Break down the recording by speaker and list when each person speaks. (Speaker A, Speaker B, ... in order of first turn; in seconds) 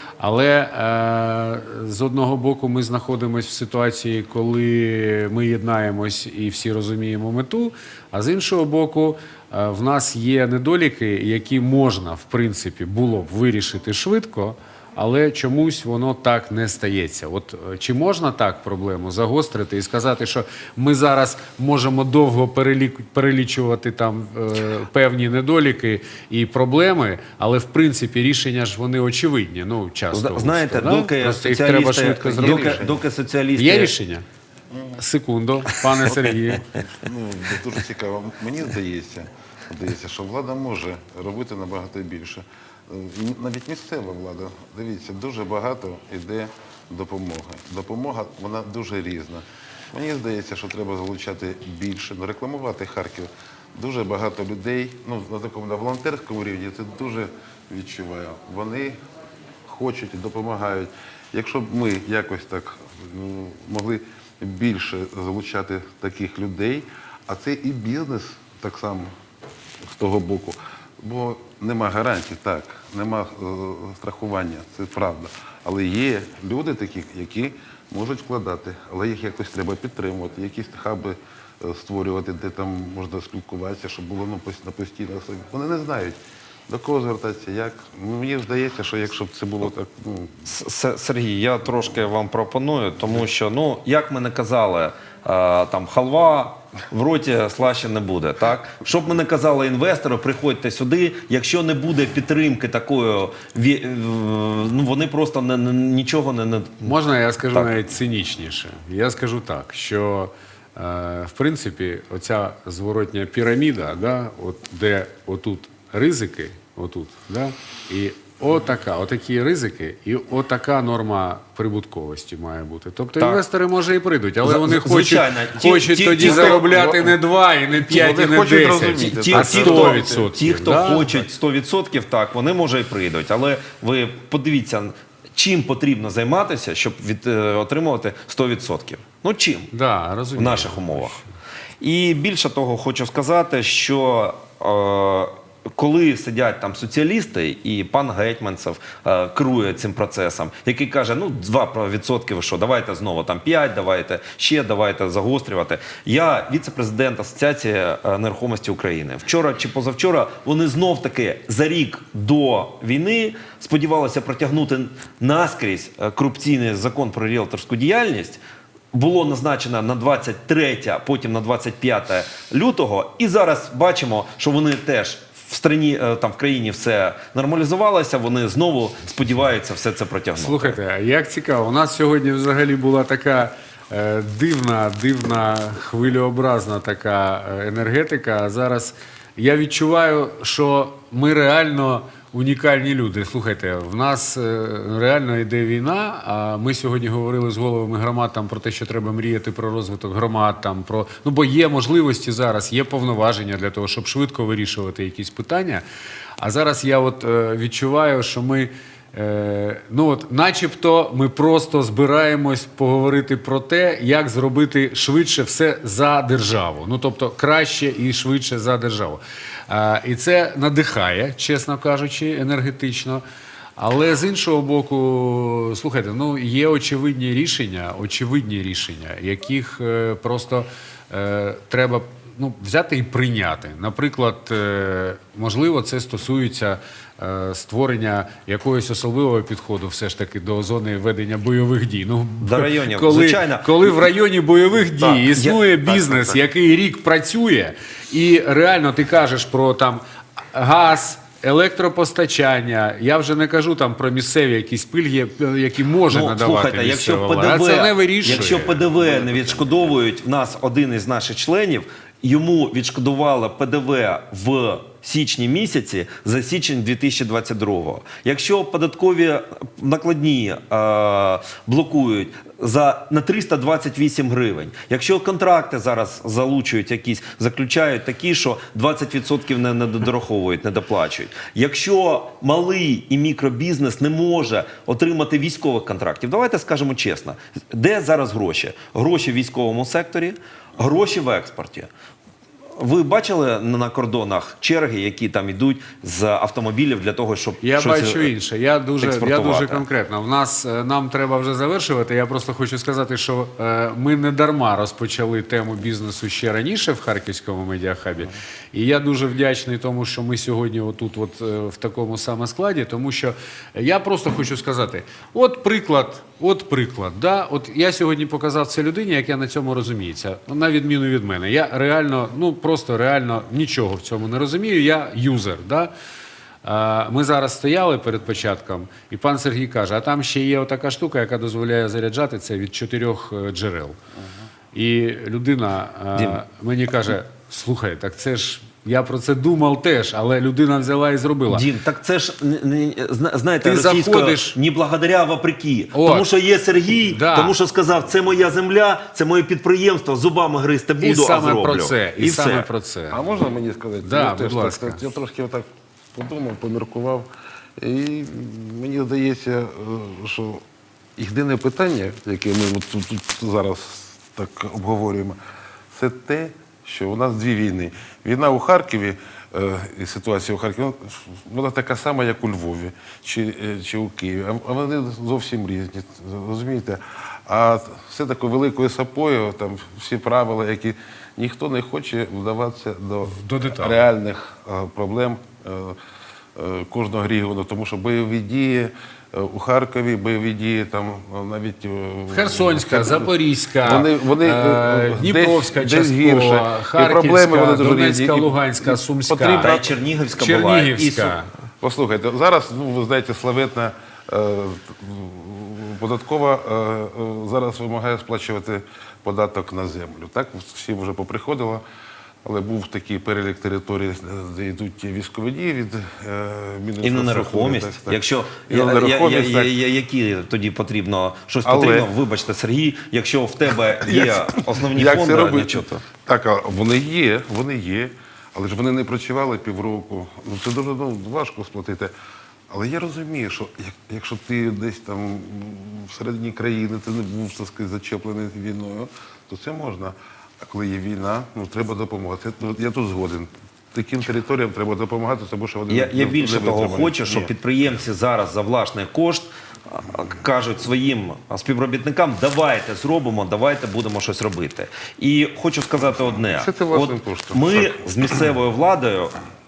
Speaker A: 0.2-32.9, 33.5-34.2, 35.0-36.7, 106.8-131.1, 139.7-141.3, 180.4-205.8, 206.4-223.2, 223.8-258.8, 297.6-325.9, 326.6-334.0, 334.7-341.6, 343.6-344.6, 345.9-346.3, 347.0-347.6, 351.0-353.2, 354.0-355.0, 383.3-384.0, 392.3-399.8, 400.4-401.5
Speaker B: 30.1-33.9, 90.5-106.9, 124.4-126.7, 129.0-139.7, 140.3-141.2, 141.8-168.4, 168.9-180.8, 242.4-244.1, 245.0-246.4, 256.1-291.9, 292.8-298.3, 299.0-299.8, 336.1-336.4, 341.5-352.7, 399.6-401.4, 417.0-425.9, 445.9-459.3
Speaker C: 32.4-33.0, 36.9-59.0, 59.6-69.1, 69.8-86.2, 86.7-90.4, 126.2-127.2, 127.8-130.3, 259.1-259.6, 353.1-360.6, 361.2-365.4, 365.9-386.0, 386.5-399.9, 401.8-411.8, 412.4-419.7, 421.6-422.1, 424.0-432.1, 432.7-447.5, 456.6-458.3